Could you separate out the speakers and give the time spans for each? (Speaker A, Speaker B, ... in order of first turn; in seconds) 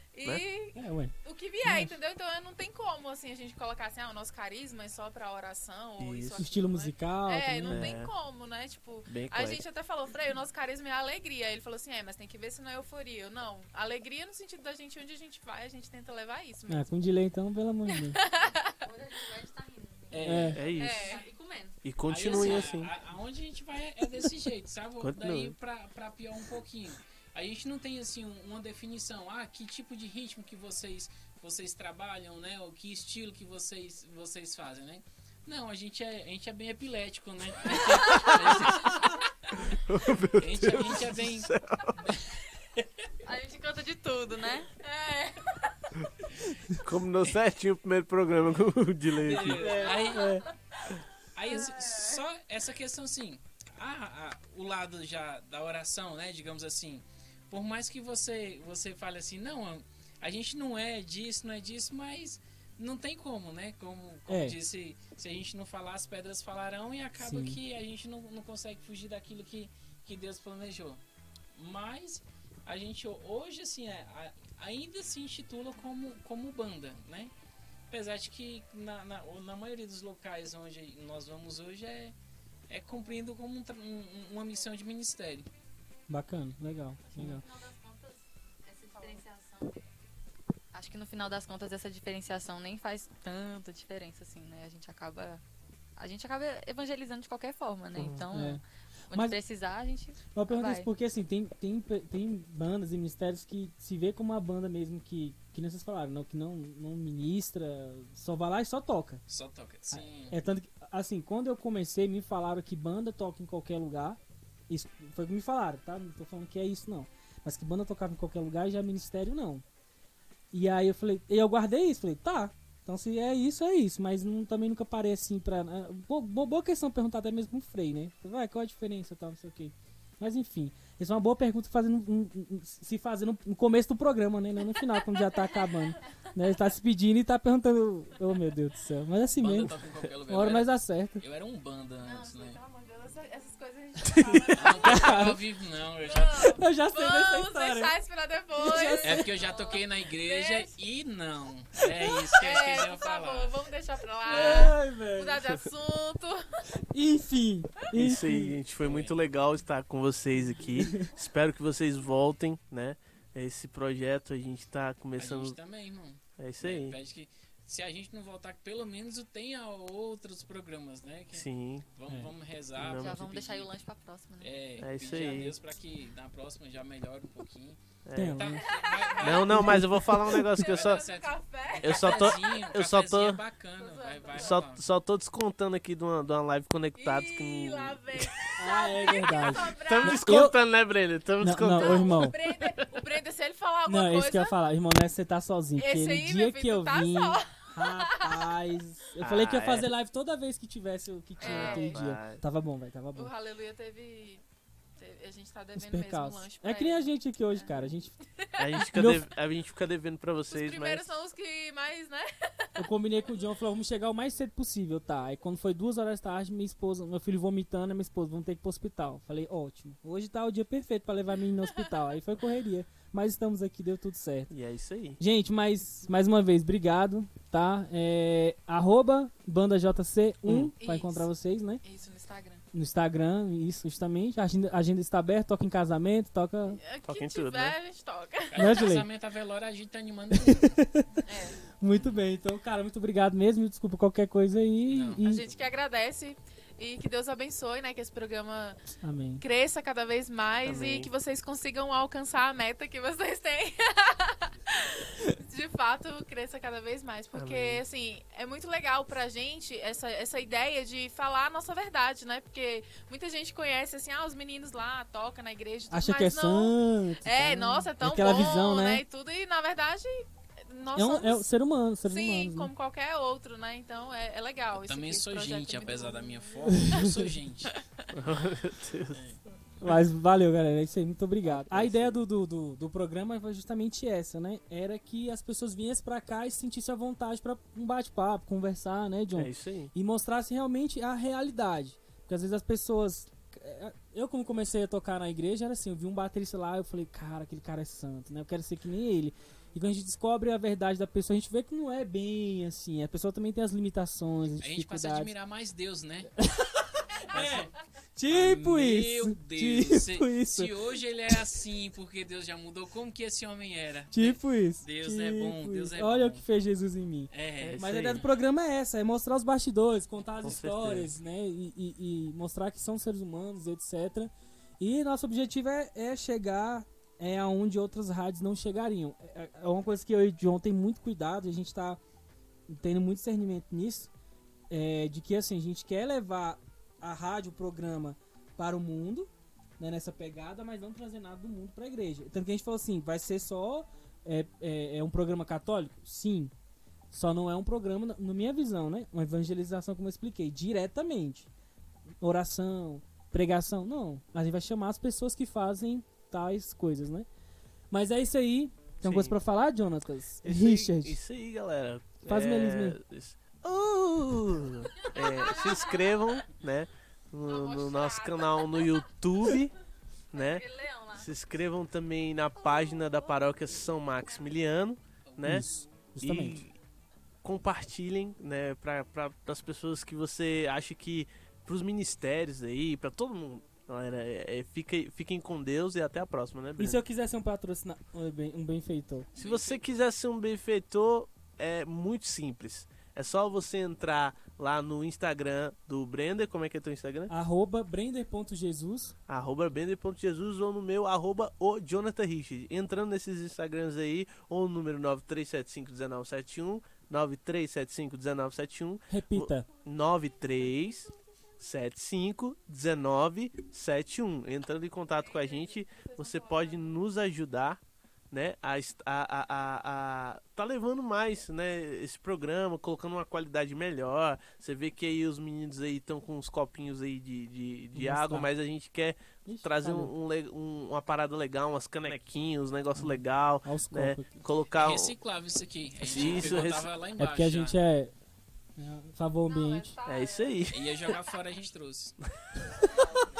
Speaker A: 0.1-16.9, 17.9-18.8, 20.8-21.3, 44.8-45.7, 49.8-50.3, 51.5-52.1, 142.0-145.4, 146.0-150.7, 152.3-156.4, 178.6-179.4, 180.6-182.4, 183.8-184.5, 187.0-190.4, 191.6-194.6, 195.8-198.5, 201.4-202.0, 203.1-204.4, 205.0-207.8, 208.4-208.7, 210.5-212.8, 230.8-231.3, 231.8-232.6, 236.8-238.9, 241.2-241.6, 245.2-248.8, 249.4-271.4, 272.1-276.5, 365.0-366.2, 367.5-369.0, 415.2-416.8, 439.5-440.6
Speaker B: 0.7-2.0, 6.4-7.9, 16.7-18.2, 20.2-20.6, 49.6-50.5, 64.3-64.5, 67.2-67.6, 86.1-87.4, 98.3-99.4, 100.3-109.2, 109.9-119.6, 120.5-141.2, 144.0-145.4, 146.5-147.9, 148.6-149.3, 154.3-155.5, 156.7-158.6, 178.1-178.6, 179.5-180.4, 188.6-190.6, 191.4-192.3, 193.8-203.3, 205.7-208.1, 208.8-209.2, 212.8-224.5, 225.2-231.8, 232.7-236.8, 238.5-239.1, 240.3-241.2, 241.8-245.5, 249.0-249.4, 265.9-269.0, 270.9-272.7, 276.6-277.3, 279.8-305.3, 306.4-310.7, 314.1-332.0, 332.7-334.1, 334.7-346.5, 347.1-351.5, 352.2-357.3, 357.9-361.2, 362.2-363.0, 375.4-376.7, 386.8-389.3, 397.3-399.1, 409.1-409.7, 427.9-428.5, 429.4-430.1, 432.9-434.4, 437.2-438.1, 438.8-440.0
Speaker C: 6.0-6.4, 7.7-8.1, 9.1-9.6, 20.5-21.1, 21.8-22.9, 25.0-25.5, 39.7-42.0, 46.7-49.9, 98.0-98.2, 157.9-165.6, 166.4-167.0, 171.3-171.9, 172.8-173.2, 174.8-175.6, 178.1-178.5, 179.2-181.0, 181.8-183.4, 184.3-188.3, 189.8-193.2, 199.2-199.9, 201.4-202.4, 208.6-211.1, 224.5-225.2, 230.4-230.7, 237.1-237.8, 250.6-251.1, 257.3-257.8, 278.1-279.2, 281.4-282.2, 289.3-289.9, 317.6-318.2, 320.4-321.1, 359.0-359.4, 360.4-369.7, 370.3-375.6, 376.2-376.7, 377.4-387.0, 389.3-397.3, 399.3-435.1, 436.0-436.9, 440.0-441.1
Speaker D: 18.8-21.8, 43.2-44.7, 87.1-89.9, 90.7-95.4, 96.0-100.9, 172.9-174.5, 370.3-371.2
Speaker E: 20.1-20.6, 22.1-39.6, 40.4-41.5, 42.0-42.8, 49.2-50.4, 51.3-71.0, 71.5-77.3, 77.9-82.1, 82.7-85.5, 109.3-110.3, 139.4-142.6, 144.5-146.6, 149.0-153.6, 154.3-154.7, 158.8-159.2, 165.2-173.7, 174.4-177.8, 178.3-184.8, 238.5-240.8, 244.9-245.2, 274.7-277.7, 279.1-279.4, 304.6-306.3, 307.3-307.7, 308.3-316.4, 317.3-318.2, 375.3-375.6, 389.4-389.8, 434.7-437.8, 440.7-442.1